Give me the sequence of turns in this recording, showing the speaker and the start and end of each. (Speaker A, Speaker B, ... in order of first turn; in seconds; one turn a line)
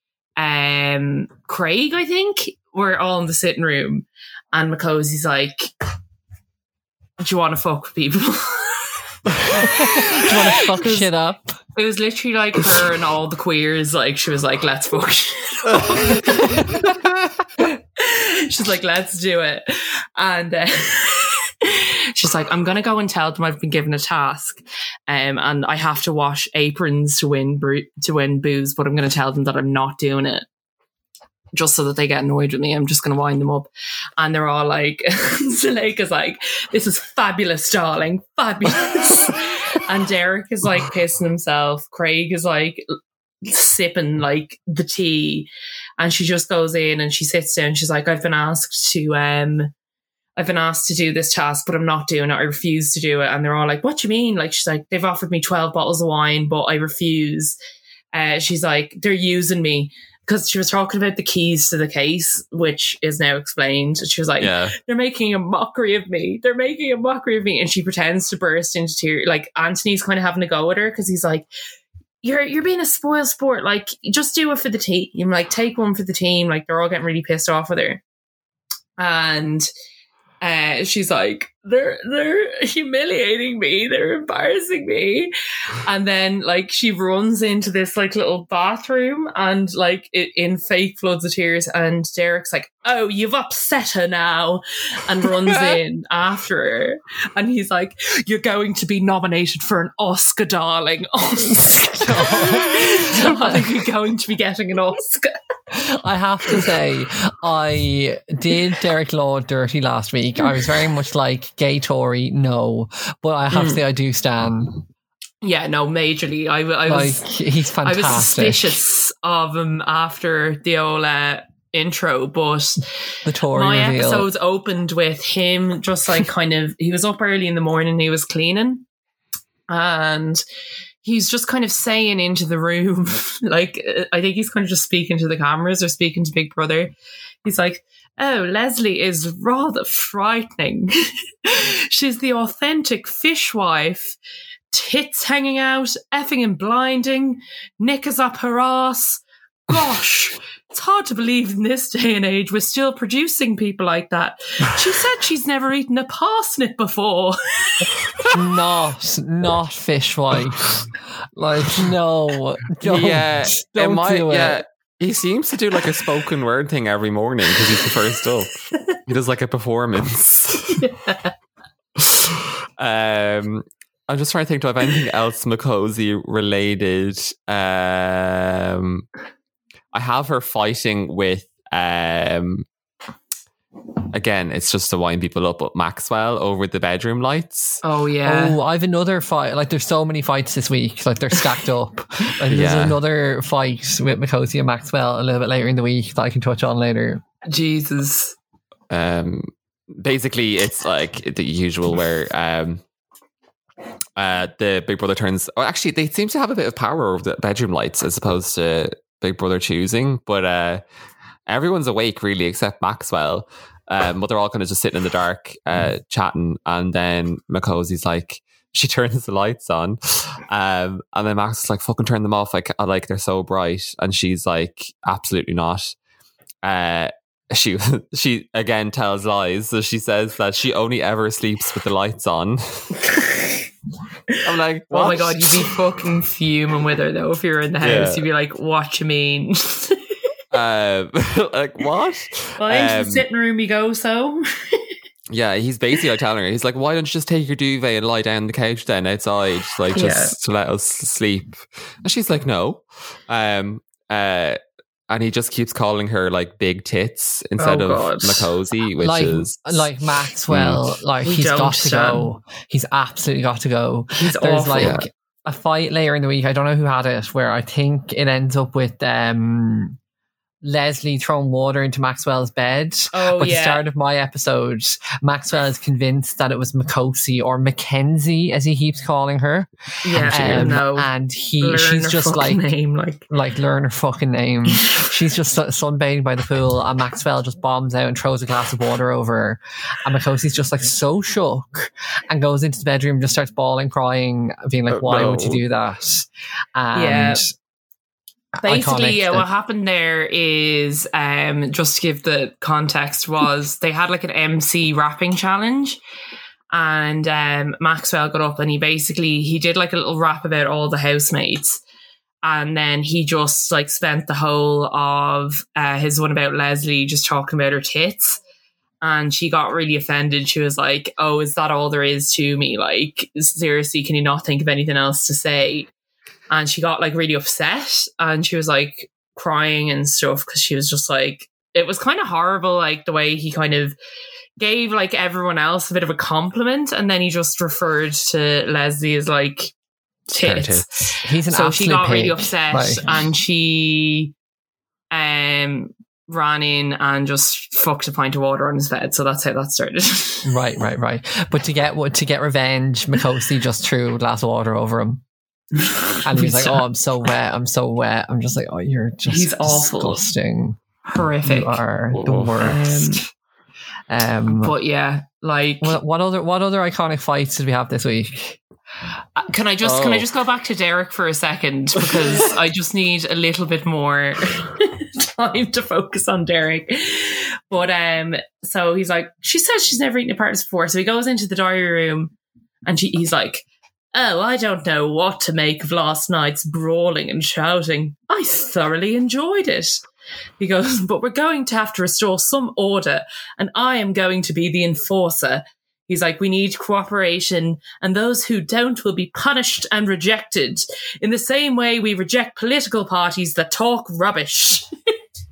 Speaker A: 0.4-5.7
Speaker A: 7.2-11.1
Speaker B: 9.5-11.6
Speaker A: 11.8-16.8
Speaker B: 16.4-16.9
Speaker A: 17.6-30.5
Speaker A: 31.5-42.9
Speaker A: 43.4-49.7
Speaker A: 50.4-57.6
Speaker A: 58.1-71.5
Speaker C: 64.4-64.8
Speaker A: 72.2-78.0
Speaker A: 79.0-79.7
Speaker A: 80.4-85.3
Speaker A: 85.8-105.3
Speaker B: 101.5-103.7
Speaker B: 105.7-114.8
Speaker A: 113.5-113.8
Speaker A: 115.4-117.3
Speaker B: 116.9-118.8
Speaker A: 117.8-122.8
Speaker B: 123.2-124.3
Speaker A: 123.5-128.9
Speaker A: 129.7-130.4
Speaker A: 131.0-136.9
Speaker A: 137.4-144.2
Speaker A: 144.7-158.3
Speaker B: 158.3-164.6
Speaker C: 162.8-170.8
Speaker A: 170.8-171.3
Speaker C: 172.0-179.1
Speaker C: 179.9-182.7
Speaker C: 184.1-187.8
Speaker A: 187.8-188.6
Speaker B: 188.2-197.2
Speaker C: 192.5-193.0
Speaker A: 197.5-198.4
Speaker C: 198.9-202.8
Speaker C: 204.2-210.8
Speaker C: 211.5-225.9
Speaker C: 226.6-233.1
Speaker C: 234.4-235.7
Speaker A: 234.9-240.0
Speaker C: 237.8-238.2
Speaker C: 240.5-243.2
Speaker A: 242.6-244.8
Speaker C: 245.3-254.6
Speaker A: 249.9-250.4
Speaker C: 255.1-259.9
Speaker A: 257.6-258.5
Speaker B: 259.0-270.0
Speaker C: 260.5-261.0
Speaker A: 261.2-262.3
Speaker A: 264.1-265.0
Speaker C: 264.8-265.0
Speaker B: 270.6-282.6
Speaker A: 273.1-273.8
Speaker A: 280.0-281.1
Speaker C: 280.2-280.8
Speaker A: 281.6-283.2
Speaker B: 283.3-297.5
Speaker C: 294.9-295.6
Speaker A: 296.9-297.5
Speaker B: 298.6-299.5
Speaker A: 298.6-306.0
Speaker A: 306.7-311.8
Speaker A: 312.4-318.4
Speaker A: 319.0-325.9
Speaker A: 326.5-334.0
Speaker A: 334.6-339.7
Speaker A: 340.3-344.3
Speaker C: 340.4-341.0
Speaker B: 341.2-343.0
Speaker A: 345.1-350.6
Speaker B: 350.4-355.2
Speaker A: 355.8-356.8
Speaker B: 356.2-360.8
Speaker A: 359.3-360.2
Speaker A: 361.1-361.8
Speaker B: 361.4-363.2
Speaker C: 362.1-362.7
Speaker A: 362.6-363.2
Speaker B: 364.1-364.7
Speaker A: 364.5-366.0
Speaker B: 365.8-368.6
Speaker A: 369.4-382.3
Speaker C: 369.8-370.3
Speaker A: 382.9-390.0
Speaker A: 390.6-404.9